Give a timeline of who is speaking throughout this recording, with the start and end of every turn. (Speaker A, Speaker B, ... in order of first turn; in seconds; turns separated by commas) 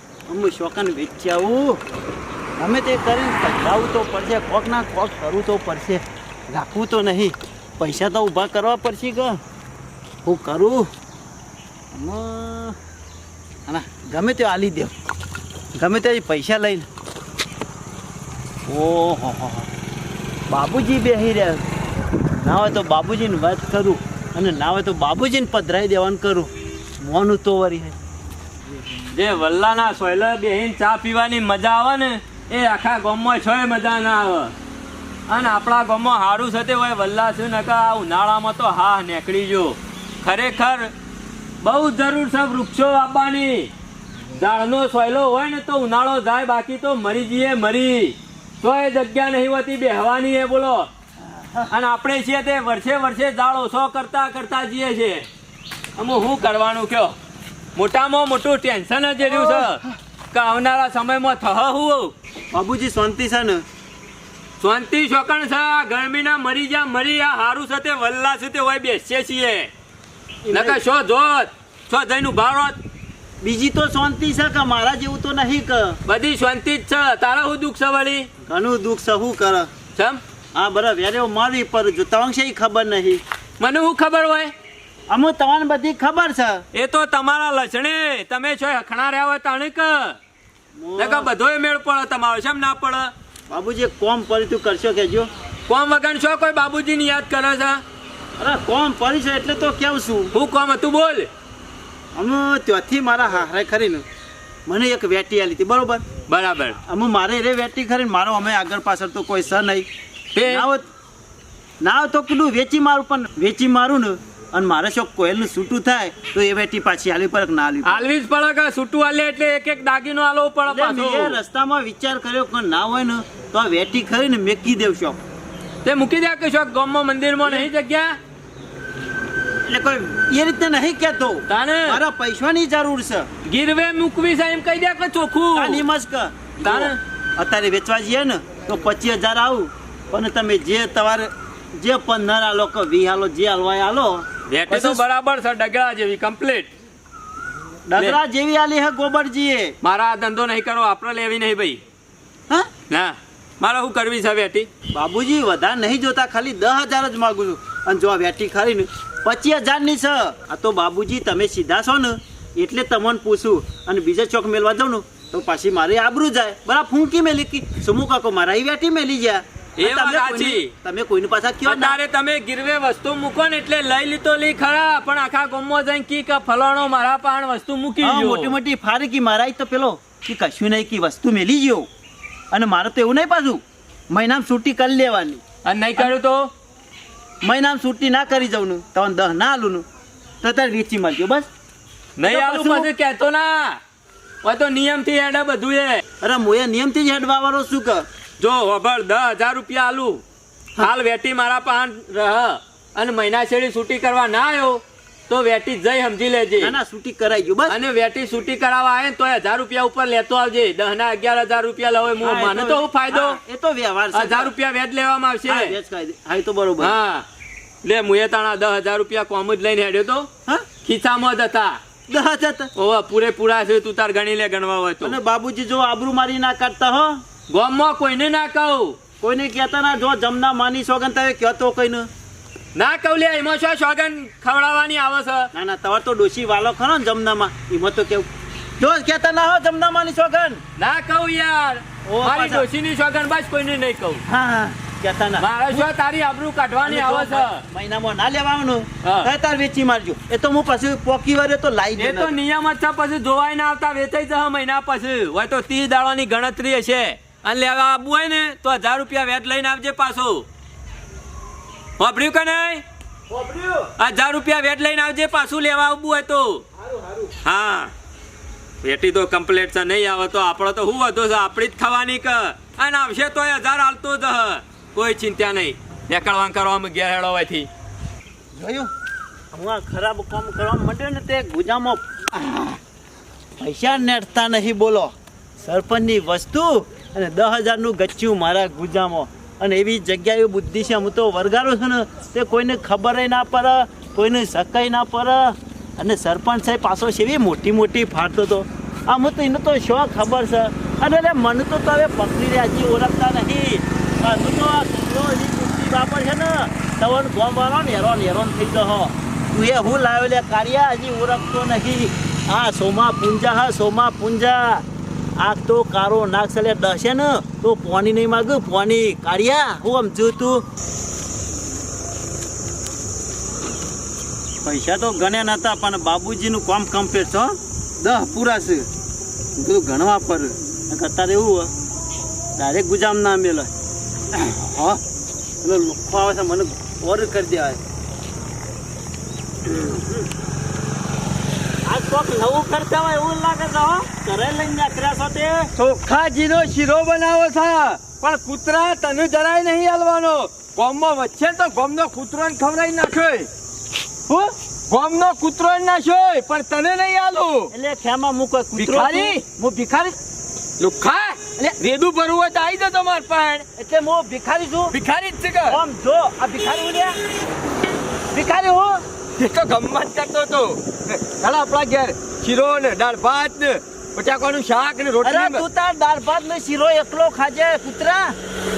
Speaker A: 0.3-1.8, Speaker A: 2.6-9.4, Speaker A: 10.2-10.9, Speaker A: 11.9-12.8, Speaker A: 13.7-14.9, Speaker A: 15.8-16.9, Speaker A: 18.7-19.7, Speaker A: 20.5-21.6, Speaker A: 22.4-27.9, Speaker B: 29.1-34.5, Speaker B: 35.3-40.9, Speaker B: 41.6-43.7, Speaker B: 44.3-50.9, Speaker A: 51.2-51.7, Speaker B: 51.7-55.3, Speaker B: 56.0-57.1, Speaker B: 57.7-62.1, Speaker A: 59.2-59.7, Speaker A: 62.5-63.6, Speaker B: 64.6-69.7, Speaker A: 70.4-70.8, Speaker B: 70.5-72.8, Speaker A: 73.4-76.0, Speaker B: 76.0-78.3, Speaker A: 78.5-79.7, Speaker B: 79.9-80.2, Speaker A: 80.5-83.2, Speaker B: 83.6-84.5, Speaker A: 85.1-86.6, Speaker B: 86.7-90.2, Speaker A: 90.8-91.3, Speaker B: 91.0-93.1, Speaker A: 93.5-95.3, Speaker B: 95.7-97.8, Speaker A: 98.4-100.3, Speaker B: 100.3-101.3, Speaker A: 102.1-104.0, Speaker A: 104.7-106.0, Speaker B: 106.3-106.8, Speaker A: 106.8-109.8, Speaker B: 110.3-110.6, Speaker A: 110.4-110.9, Speaker A: 111.8-118.1, Speaker B: 117.8-121.3, Speaker A: 120.7-125.2, Speaker B: 125.8-128.2, Speaker A: 127.4-127.7, Speaker A: 129.7-133.3, Speaker B: 131.5-132.0, Speaker B: 133.4-135.8, Speaker A: 135.5-145.0, Speaker B: 136.6-137.0, Speaker B: 144.5-146.7, Speaker A: 147.9-149.7, Speaker B: 149.8-151.8, Speaker B: 152.9-154.7, Speaker A: 154.9-172.0, Speaker B: 169.8-170.7, Speaker B: 171.7-178.5, Speaker A: 178.0-181.9, Speaker A: 182.5-185.4, Speaker B: 185.6-186.5, Speaker A: 187.4-189.8, Speaker A: 190.4-191.5, Speaker B: 192.2-193.8, Speaker A: 192.2-192.9, Speaker B: 194.4-196.0, Speaker A: 196.2-198.1, Speaker B: 198.4-200.2, Speaker B: 200.8-206.7, Speaker A: 206.6-207.8, Speaker B: 207.7-213.4, Speaker A: 212.2-214.5, Speaker B: 214.1-215.8, Speaker A: 215.4-217.0, Speaker B: 216.8-217.2, Speaker B: 217.8-220.3, Speaker B: 220.8-221.8, Speaker A: 222.1-222.7, Speaker B: 222.8-225.1, Speaker A: 225.0-227.2, Speaker B: 227.5-229.0, Speaker A: 229.2-232.1, Speaker B: 232.7-235.5, Speaker A: 235.5-238.3, Speaker A: 238.8-240.6, Speaker B: 240.8-244.2, Speaker A: 242.0-242.7, Speaker A: 244.3-245.9, Speaker B: 245.4-247.6, Speaker A: 246.8-252.3, Speaker B: 249.0-249.3, Speaker B: 252.0-260.5, Speaker B: 262.0-262.8, Speaker A: 263.3-263.9, Speaker B: 264.0-266.6, Speaker A: 266.9-267.2, Speaker B: 267.4-267.9, Speaker B: 268.8-277.7, Speaker A: 278.6-278.9, Speaker A: 279.5-282.8, Speaker A: 283.6-314.8, Speaker A: 315.4-320.6, Speaker A: 324.6-328.9, Speaker A: 329.6-331.7, Speaker A: 332.6-333.7, Speaker A: 334.3-335.0, Speaker A: 335.6-337.8, Speaker A: 339.7-340.3, Speaker A: 341.9-345.7, Speaker C: 345.7-353.5, Speaker C: 354.3-357.7, Speaker A: 357.7-360.1, Speaker C: 358.7-359.4, Speaker C: 360.8-363.6, Speaker A: 363.8-364.9, Speaker C: 364.9-365.8, Speaker A: 365.7-367.2, Speaker A: 368.3-369.0, Speaker C: 369.4-375.6, Speaker A: 375.2-378.3